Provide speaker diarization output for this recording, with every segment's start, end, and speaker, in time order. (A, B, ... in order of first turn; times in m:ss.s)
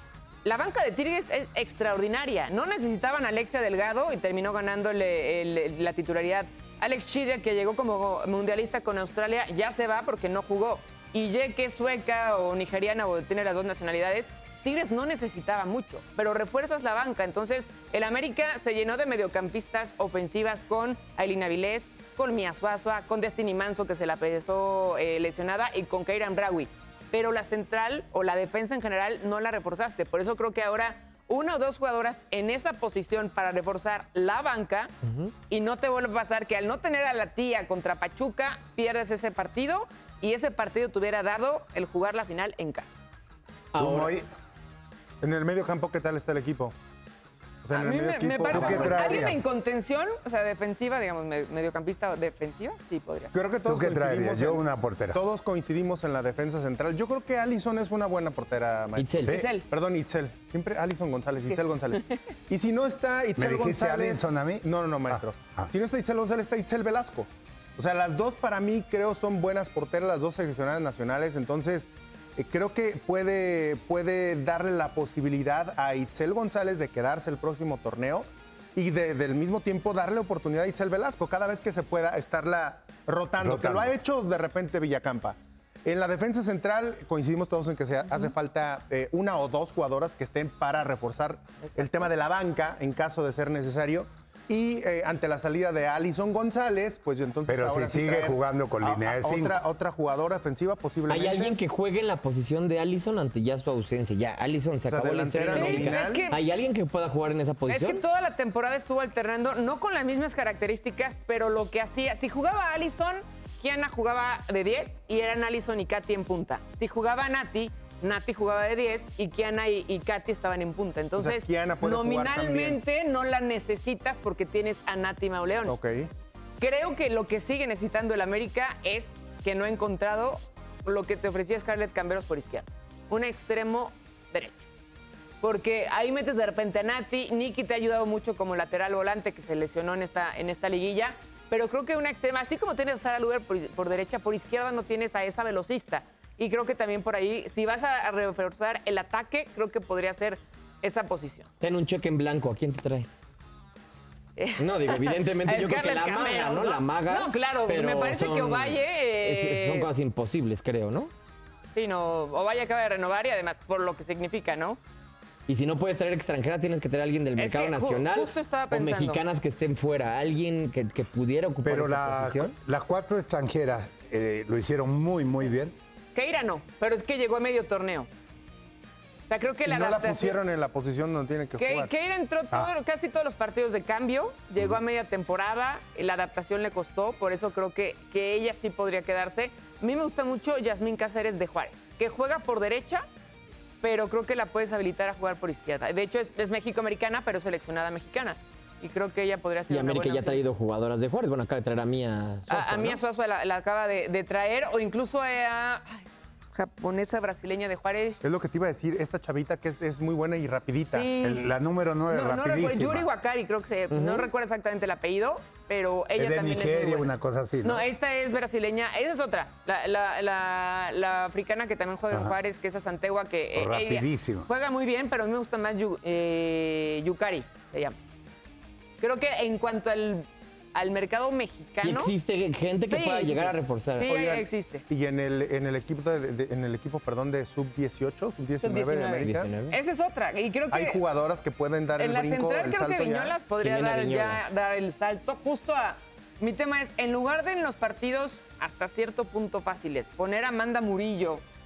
0:00.4-0:34.9 A
0:35.0-0:35.3 B
0:35.5-0:43.0 A
0:43.7-0:44.2 B
0:43.8-0:44.3 C
0:45.2-0:46.7 D
0:47.6-0:49.3 D
0:47.7-0:53.3 A
0:48.5-0:49.4 C
0:48.5-0:49.1 B
0:53.3-1:41.6 D
0:53.7-0:55.2 C
0:59.0-0:59.4 B
0:59.3-0:59.7 A
1:03.4-1:05.7 C
1:23.4-1:23.9 C
1:31.6-1:32.1 A
1:37.5-1:39.6 C
1:41.1-1:48.0 B
1:44.9-1:46.3 D
1:45.5-1:46.4 A
1:47.7-2:05.8 A
2:01.2-2:02.8 D
2:05.7-2:06.1 D
2:06.6-2:14.7 A
2:15.4-2:31.5 A
2:31.6-2:33.2 B
2:34.4-2:39.9 A
2:34.6-2:41.1 B
2:41.8-2:44.8 A
2:45.5-2:52.5 B
2:47.4-2:49.2 A
2:51.6-2:55.7 C
2:56.2-2:58.1 A
2:59.3-3:00.4 A
2:59.6-3:01.9 D
3:01.6-3:13.0 A
3:13.8-3:20.4 A
3:19.7-3:23.0 B
3:22.5-3:28.2 A
3:28.2-3:31.1 D
3:30.9-3:31.5 A
3:31.2-3:33.1 C
3:32.1-3:37.1 A
3:33.9-3:34.3 B
3:36.2-3:37.8 C
3:37.6-3:48.0 A
3:43.6-3:44.5 C
3:49.0-3:52.1 A
3:51.8-3:54.3 B
3:52.8-3:54.8 A
3:54.1-3:59.5 D
3:58.6-4:01.0 A
3:59.2-3:59.8 B
4:00.7-4:03.4 D
4:02.0-4:11.4 A
4:03.6-4:04.5 B